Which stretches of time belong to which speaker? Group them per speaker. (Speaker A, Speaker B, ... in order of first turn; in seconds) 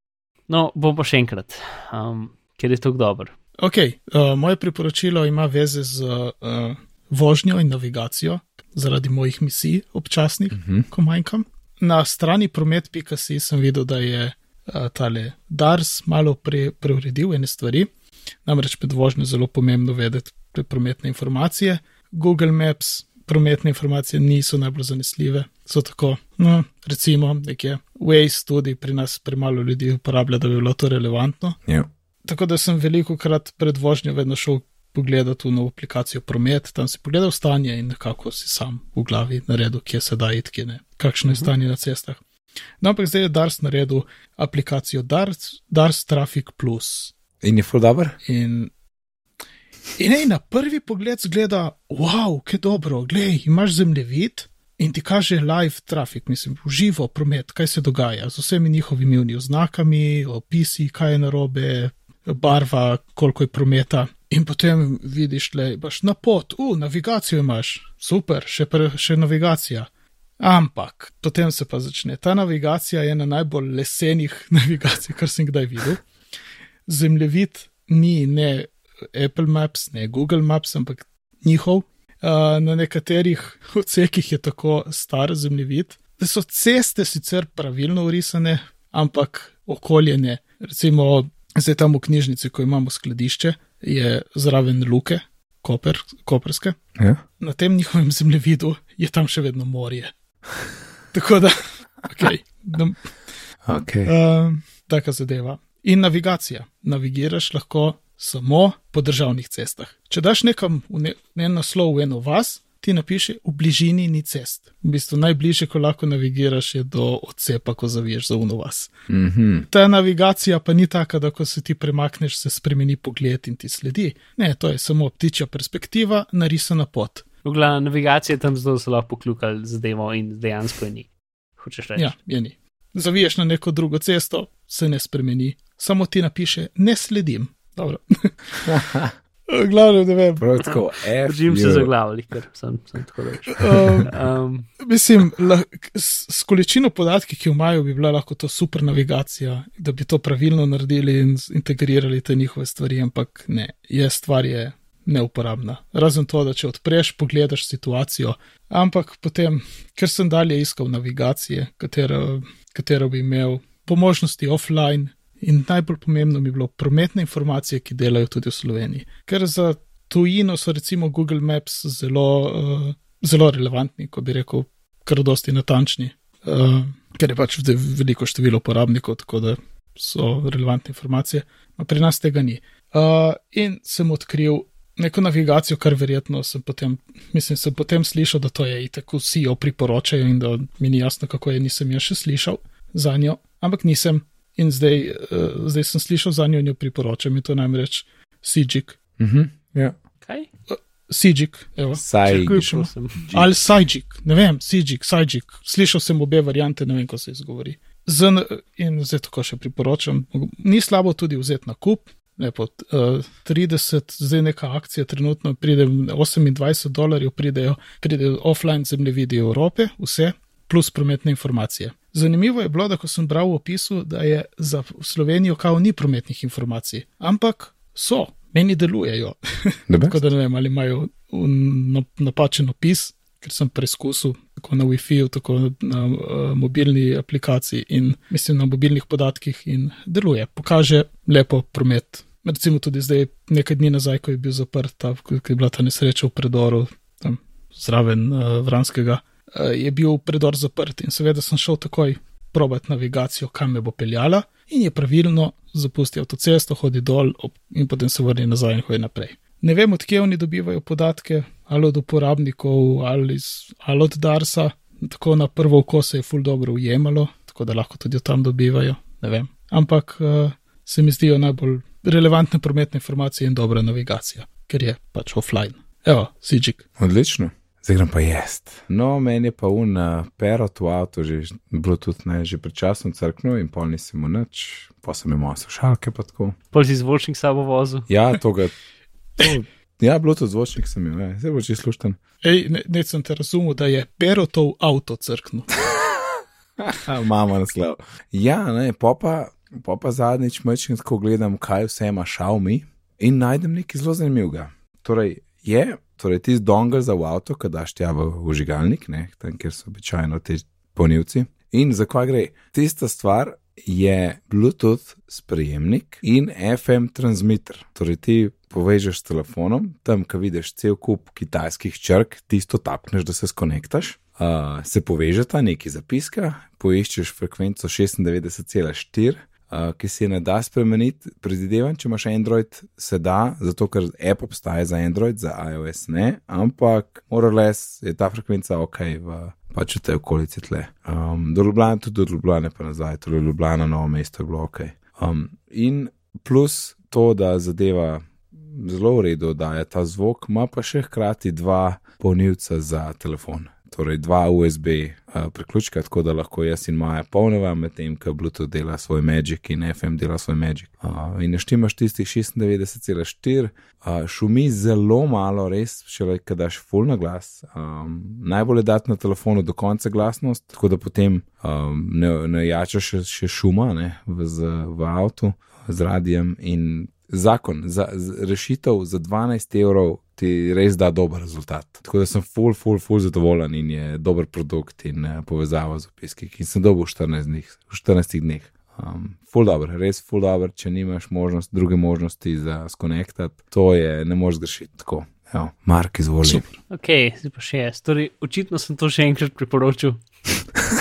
Speaker A: 0.5-3.3, 127.4-131.1, 131.6-132.1, 141.2-144.7, 202.3-203.2, 286.7-288.1, 396.9-400.2
Speaker B: 3.6-17.9, 18.4-31.6, 32.2-42.2, 42.8-47.1, 48.2-48.7, 50.0-69.9, 70.4-76.0, 76.9-96.8, 97.4-100.1, 101.1-103.1, 104.1-118.9, 119.7-127.2, 132.0-138.8, 139.5-140.4, 143.5-144.1, 144.8-199.0, 200.7-276.8, 292.4-295.7
Speaker C: 10.5-10.9, 47.4-48.2, 97.0-97.2, 103.7-104.1, 119.1-119.7, 138.7-139.1, 140.4-141.9, 199.2-199.9, 202.0-203.5, 229.9-230.2, 277.0-286.6, 288.1-288.8, 289.4-292.2, 296.8-396.8